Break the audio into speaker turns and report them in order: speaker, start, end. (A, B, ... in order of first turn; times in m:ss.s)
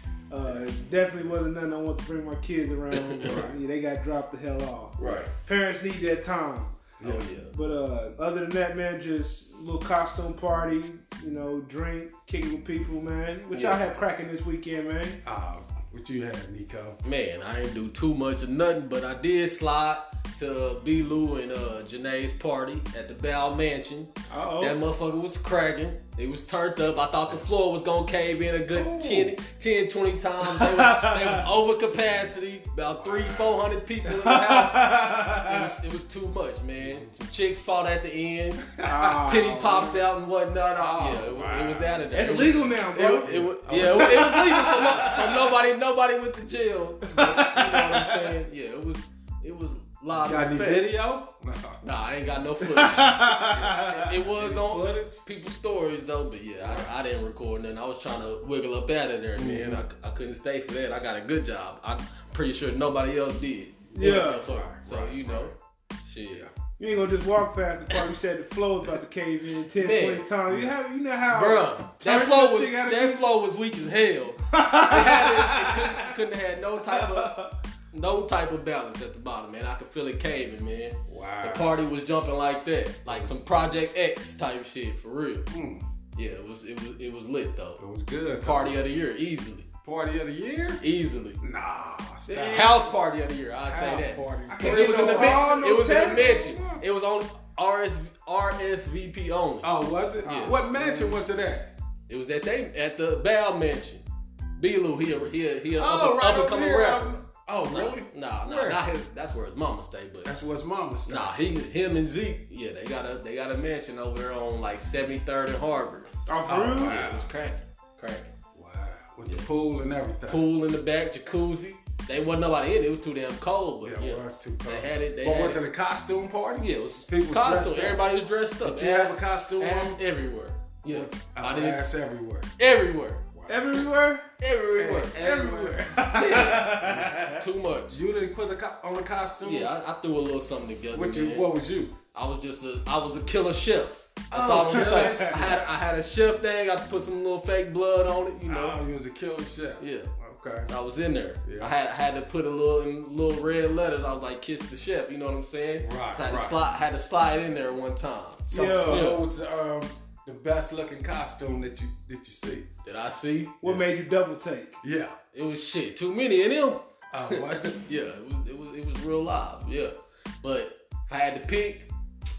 0:00.3-0:06.8 A
0:02.9-0:03.3 B
0:03.2-0:03.5 C
0:05.0-0:05.3 B
0:07.0-0:07.3 C
0:07.0-0:07.5 B
0:07.5-0:15.2 A
0:13.5-0:14.0 B
0:15.2-0:17.0 C
0:17.0-0:38.6 B
0:24.3-0:24.8 A
0:28.7-0:29.3 C
0:30.4-0:31.5 A
0:33.0-0:33.7 C
0:34.1-0:35.7 A
0:36.8-0:37.1 C
0:38.7-0:39.4 C
0:38.8-0:40.0 A
0:39.2-0:50.9 B
0:40.7-0:42.1 C
0:42.1-0:45.5 A
0:43.2-0:45.2 C
0:47.1-0:48.3 A
0:50.1-0:51.8 C
0:51.8-1:06.5 B
0:52.6-0:54.1 A
0:53.4-0:55.2 C
0:56.6-0:56.9 C
0:59.4-0:59.8 C
1:03.9-1:04.5 A
1:04.4-1:05.5 C
1:06.8-1:13.3 A
1:09.8-1:10.2 B
1:11.3-1:17.3 B
1:14.5-1:16.1 A
1:16.9-1:17.5 A
1:17.9-1:25.4 B
1:21.1-1:21.8 C
1:23.1-1:23.4 C
1:25.5-1:25.8 C
1:26.1-1:27.8 B
1:27.8-1:28.8 C
1:28.4-1:29.7 B
1:29.8-1:30.8 C
1:30.8-1:31.4 B
1:31.4-1:32.9 C
1:32.3-1:39.7 B
1:33.7-1:36.8 C
1:34.5-1:36.6 A
1:39.6-1:41.7 C
1:40.2-1:41.2 A
1:40.2-1:40.6 B
1:42.1-1:44.0 B
1:44.6-1:47.2 B
1:45.7-1:48.9 C
1:47.7-1:50.3 B
1:50.2-1:51.4 C
1:51.1-1:56.1 B
1:56.3-1:57.0 A
1:56.4-1:57.3 C
1:56.8-1:58.3 B
1:58.5-2:00.5 C
2:00.3-2:05.6 B
2:03.8-2:08.1 C
2:06.6-2:11.8 B
2:08.6-2:10.0 C
2:10.9-2:12.5 C
2:12.6-2:13.2 B
2:13.3-2:13.8 C
2:13.5-2:14.3 A
2:14.4-2:18.0 B
2:14.7-2:16.0 C
2:15.4-2:17.4 A
2:16.8-2:17.1 C
2:17.9-2:19.7 C
2:19.4-2:21.5 B
2:20.9-2:21.9 C
2:22.1-2:28.8 B
2:24.3-2:25.6 C
2:24.6-2:25.6 A
2:28.4-2:30.7 C
2:29.8-2:30.1 B
2:30.7-2:39.0 B
2:31.4-2:31.7 C
2:35.8-2:36.6 C
2:38.5-2:42.7 C
2:38.5-2:39.2 A
2:42.8-2:43.5 B
2:43.6-2:44.8 A
2:44.8-2:45.2 C
2:45.3-2:51.9 B
2:47.1-2:47.8 C